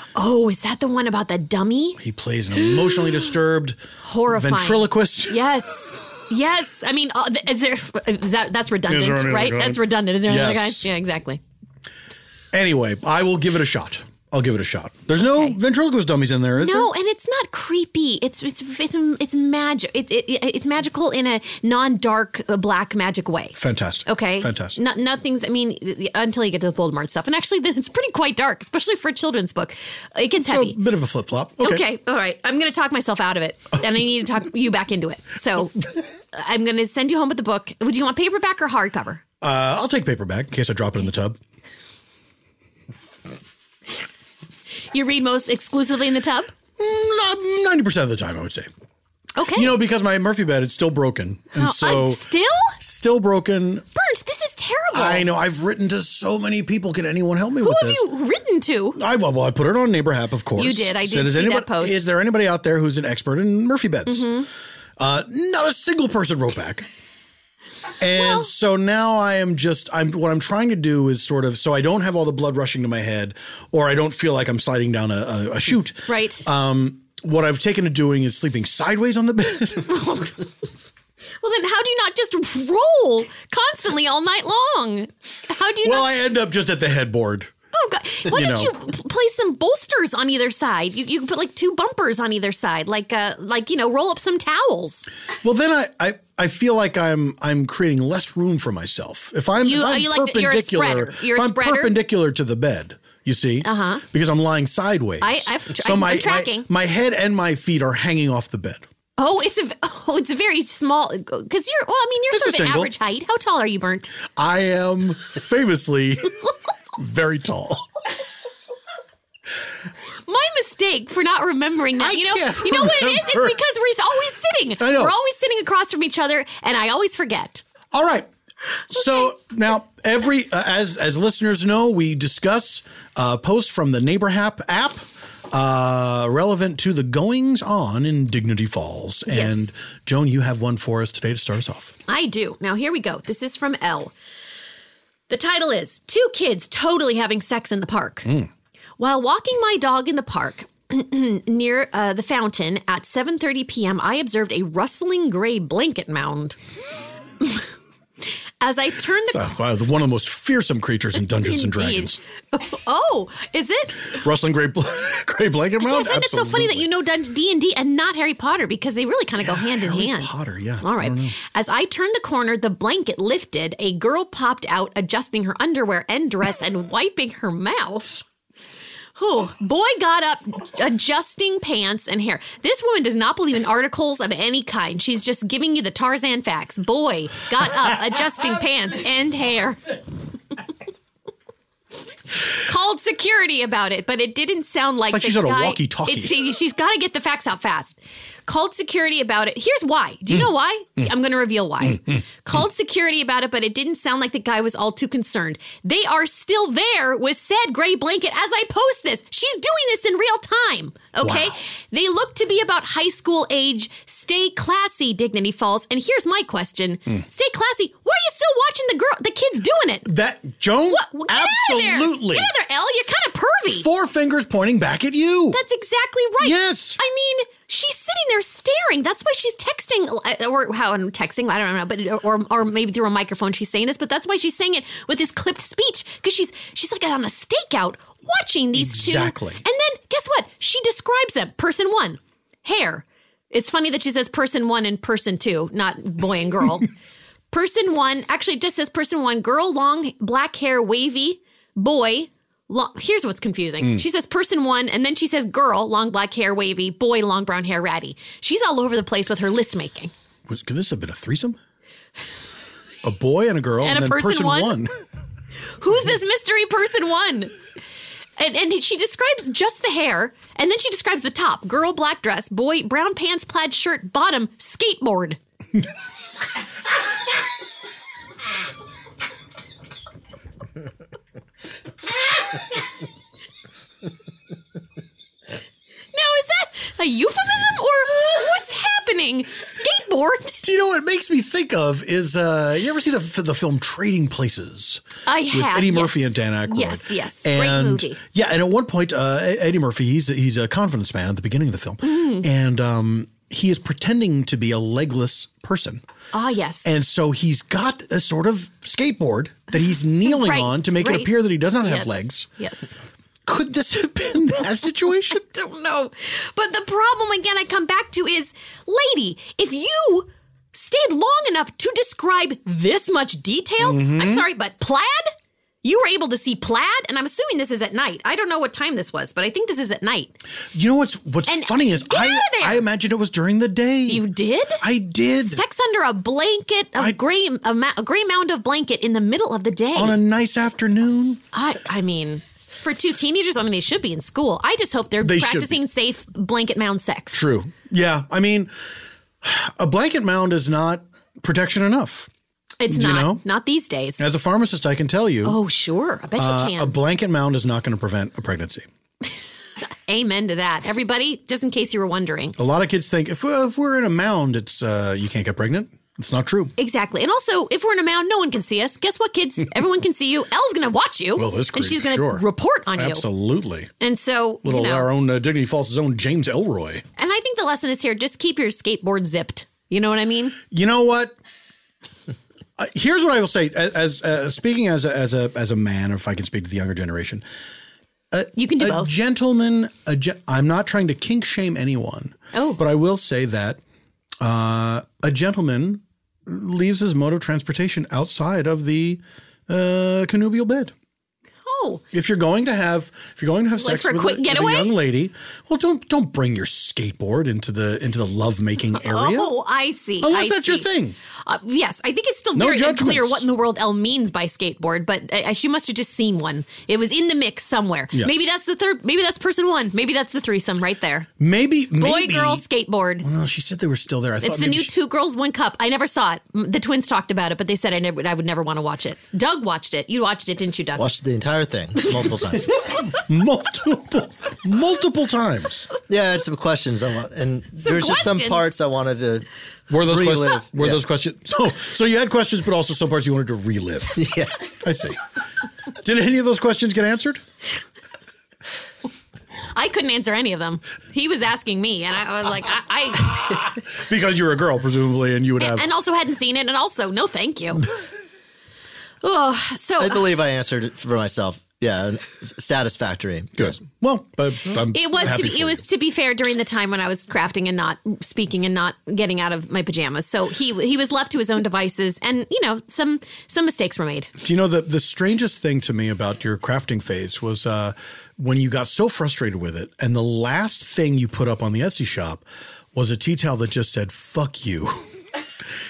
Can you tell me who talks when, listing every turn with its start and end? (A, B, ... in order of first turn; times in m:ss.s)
0:00.2-0:02.0 A
0:02.0-0:05.5 B
0:02.6-0:03.2 A
0:04.0-0:11.4 A
0:08.9-0:10.9 B
0:12.5-0:16.9 B
0:15.2-0:15.6 A
0:16.6-0:30.8 A
0:23.6-0:24.8 B
0:30.4-0:31.8 B
0:31.6-0:35.8 A
0:36.3-0:39.2 A
0:39.4-0:41.4 B
0:44.9-0:46.5 A
0:46.8-0:48.7 B
0:49.4-0:49.7 A
0:49.6-0:53.9 B
0:51.6-0:52.8 A
0:54.0-0:55.3 A
0:54.9-0:58.1 B
0:57.6-0:59.0 A
0:59.0-1:04.3 B
1:00.6-1:02.1 A
1:04.1-1:04.5 A
1:05.0-1:06.9 B
1:08.0-1:20.1 B
1:08.2-1:08.5 A
1:16.1-1:16.5 A
1:19.9-1:20.4 A
1:21.4-1:26.1 A
1:25.8-1:27.5 B
1:27.7-1:35.1 A
1:28.3-1:28.7 B
1:35.4-1:48.8 B
1:39.6-1:42.0 A
1:43.6-1:44.0 A
1:45.2-1:46.7 A
1:49.2-1:54.1 A
1:52.3-1:52.9 B
1:54.4-1:56.4 B
1:57.0-1:57.8 B
2:00.3-2:07.6 A
2:02.0-2:03.6 B
2:04.8-2:05.1 B
2:07.9-2:08.3 B
2:08.9-2:22.0 B
2:19.3-2:19.7 A
2:22.1-2:24.1 A
2:25.3-2:28.3 A
2:28.2-2:28.5 B
2:29.0-2:36.6 A
2:38.6-2:39.5 A
2:39.3-2:42.2 B
2:41.4-2:44.2 A
2:44.1-2:46.9 B
2:45.8-2:58.2 A
2:49.4-2:51.4 B
2:59.2-3:09.9 A
3:12.6-3:40.1 A
3:15.1-3:16.3 B
3:31.2-3:31.6 B
3:40.0-3:42.5 B
3:40.9-3:43.9 A
3:43.7-3:45.6 B
3:45.5-4:06.9 A
3:46.4-3:47.0 B
3:58.8-3:59.6 B
4:07.5-4:20.1 A
4:20.5-4:21.6 B
4:23.0-4:24.9 B
4:23.8-4:24.8 A
4:25.8-4:27.5 A
4:28.4-4:35.4 A
4:46.1-4:50.6 A
4:50.6-5:06.0 B
4:55.3-4:58.2 A
5:02.0-5:02.4 A
5:06.3-5:06.9 A
5:06.8-5:12.5 B
5:10.2-5:13.0 A
5:13.5-5:15.4 B
5:15.3-5:25.3 A
5:23.8-5:24.5 B
5:25.8-5:30.4 A
5:30.7-5:34.3 B
5:31.5-5:32.8 A
5:34.1-5:34.8 A
5:34.8-5:35.6 B
5:35.4-5:40.2 A
5:40.0-5:41.4 B
5:41.5-5:47.4 A
5:45.2-5:45.8 B
5:47.3-5:48.7 B
5:49.4-5:52.3 B
5:52.8-5:54.2 A
5:52.9-5:53.4 B
5:54.2-5:55.6 B
5:55.4-5:56.9 A
5:56.4-5:58.9 B
6:00.1-6:02.6 A
6:02.6-6:06.7 B
6:06.8-6:13.2 A
6:11.4-6:13.9 B
6:14.0-6:15.1 A
6:14.6-6:17.0 B
6:17.2-6:20.6 A
6:20.7-6:21.4 B
6:22.8-6:27.4 B
6:28.3-6:33.8 B
6:28.6-6:29.1 A
6:32.5-6:32.8 A
6:34.4-6:40.9 B
6:41.7-6:42.0 A
6:42.1-6:49.6 B
6:43.8-6:45.0 A
6:48.9-6:50.9 A
6:50.2-6:51.2 B
6:51.4-7:01.3 A
6:52.6-6:53.4 B
7:01.4-7:02.6 B
7:02.0-7:03.2 A
7:03.2-7:04.9 B
7:04.4-7:11.1 A
7:11.0-7:12.8 C
7:13.1-7:15.9 B
7:16.1-7:19.5 C
7:17.8-7:18.7 A
7:19.9-7:24.2 B
7:20.0-7:21.0 C
7:24.2-7:24.7 C
7:24.8-7:25.2 B
7:26.0-7:27.4 B
7:29.7-7:33.6 A
7:33.4-7:35.9 B
7:35.6-7:37.9 A
7:39.2-7:40.3 A
7:40.0-7:43.8 C
7:43.6-7:45.8 B
7:44.9-7:54.3 A
7:54.4-8:05.0 B